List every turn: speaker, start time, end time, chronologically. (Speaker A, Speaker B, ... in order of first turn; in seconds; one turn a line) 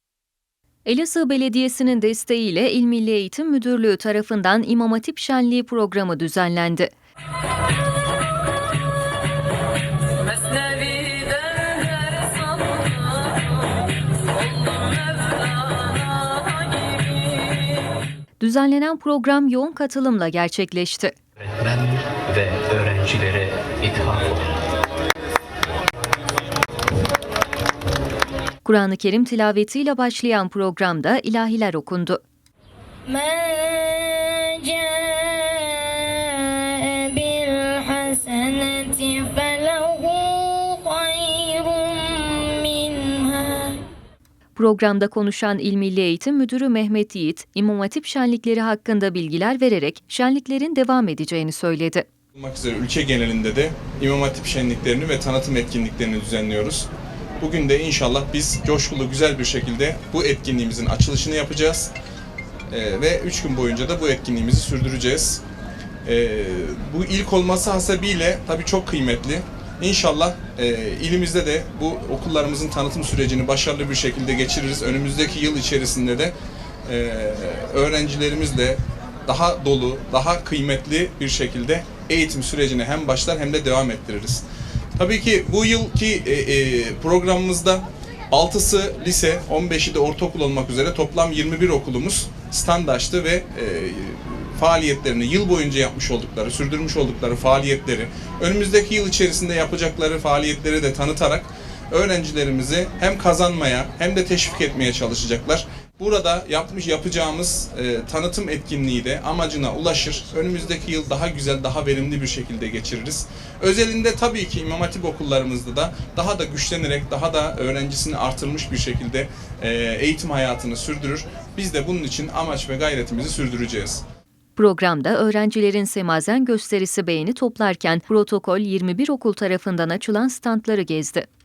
Speaker A: 0.8-6.9
Speaker A: 18.4-21.1
Speaker B: 21.4-24.6
Speaker A: 28.6-32.2
Speaker C: 33.1-43.8
Speaker A: 44.5-52.0
Speaker D: 52.3-56.9
Speaker D: 57.4-61.9
Speaker D: 62.7-65.4
Speaker D: 66.0-76.3
Speaker D: 76.8-84.4
Speaker D: 85.0-124.0
Speaker A: 124.5-131.3